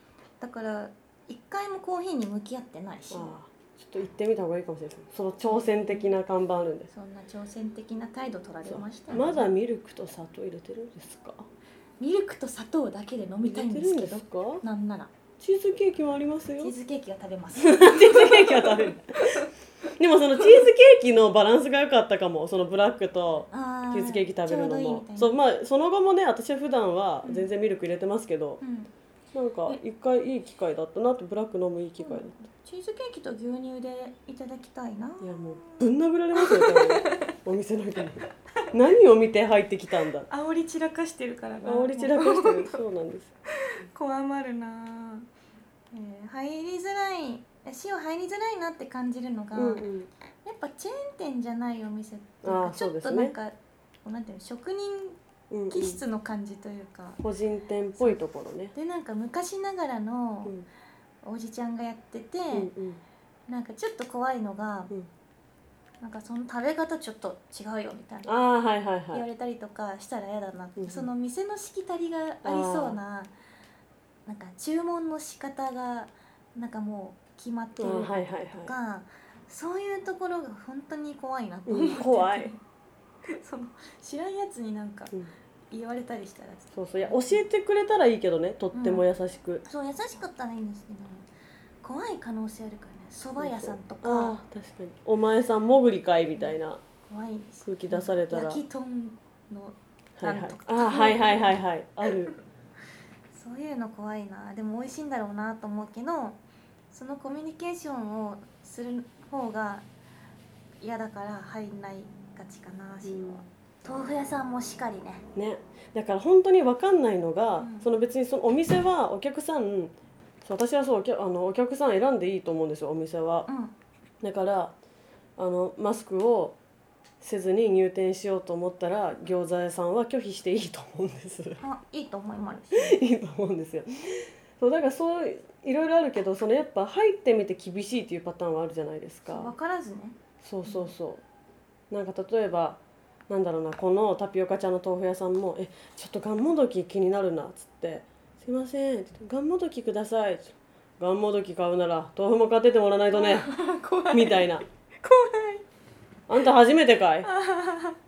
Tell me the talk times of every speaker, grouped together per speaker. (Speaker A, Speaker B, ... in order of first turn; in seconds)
Speaker A: 0.4-3.4, 5.4-6.1, 6.9-9.5, 12.0-15.1, 16.6-19.5, 23.5-25.4, 27.2-27.5, 28.6-28.9, 32.0-37.4, 40.3-42.8, 43.6-45.3, 45.9-49.9, 50.4-55.2, 55.7-57.2, 58.7-60.5, 61.2-62.7, 63.5-64.9, 66.0-68.3, 69.1-73.3, 74.2-82.6, 83.3-85.1, 85.7-87.4, 88.7-89.1, 89.7-91.3, 91.8-94.4, 97.1-101.6, 103.3-106.4, 106.9-109.8, 110.8-115.2, 117.6-117.9, 123.5-123.7, 131.6-133.0, 139.3-140.9, 153.1-155.7, 157.3-157.9
Speaker B: 3.1-6.9, 8.6-11.5, 13.4-14.6, 15.4-16.7, 17.6-19.4, 20.0-28.6, 29.3-32.4, 35.2-40.3, 41.6-43.3, 49.5-50.1, 52.4-53.3, 55.5-56.0, 57.2-58.7, 62.5-63.0, 68.2-69.2, 70.8-71.1, 72.4-73.0, 77.8-78.7, 81.7-82.5, 86.7-89.6, 93.4-96.8, 97.6-98.6, 100.2-102.3, 113.0-113.4, 115.3-123.5, 124.2-124.7, 125.4-126.5, 127.2-131.6, 132.7-139.5, 140.4-141.2, 141.9-153.5, 154.1-154.6, 156.3-157.3